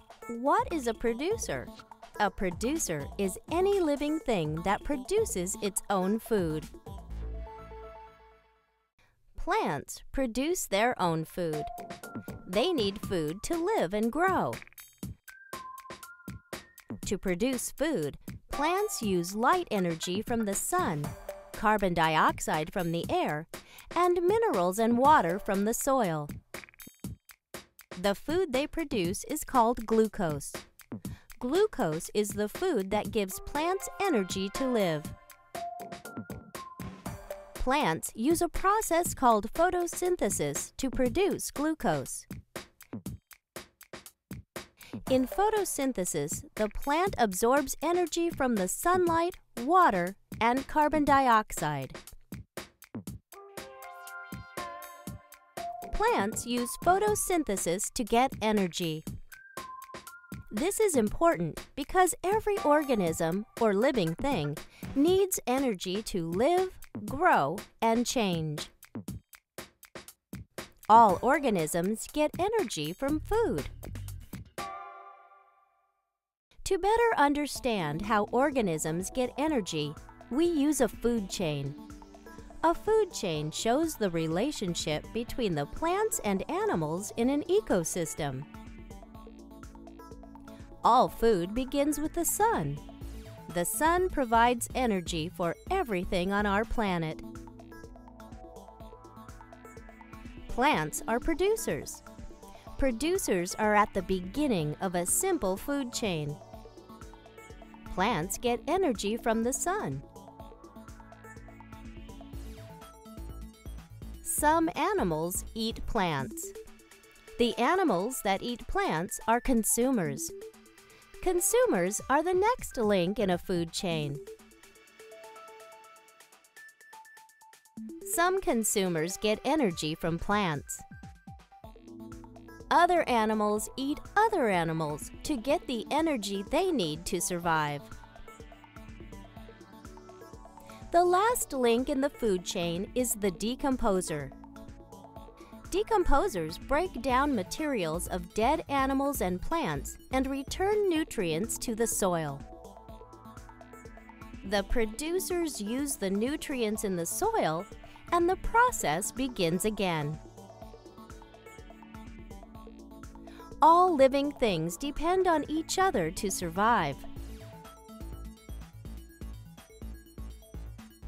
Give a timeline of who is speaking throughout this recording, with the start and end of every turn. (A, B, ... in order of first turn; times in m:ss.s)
0:00.3-0:06.7 A
0:09.3-0:11.7 A
0:12.4-0:14.6 A
0:17.0-0:26.3 A
0:28.0-0:30.6 A
0:31.4-0:35.1 A
0:37.6-0:42.3 A
0:45.1-0:52.0 A
0:55.9-0:59.0 A
1:00.5-1:08.7 A
1:10.9-1:13.7 A
1:16.6-1:21.8 A
1:22.6-1:28.5 A
1:30.8-1:32.8 A
1:33.5-1:37.2 A
1:40.5-1:42.0 A
1:42.7-1:46.4 A
1:47.8-1:50.0 A
1:54.2-1:56.5 A
1:57.4-2:00.3 A
2:01.2-2:04.2 A
2:08.0-2:10.8 A
2:12.7-2:17.9 A
2:20.9-2:24.3 A
2:25.7-2:32.4 A
2:34.4-2:40.2 A
2:43.6-2:47.1 A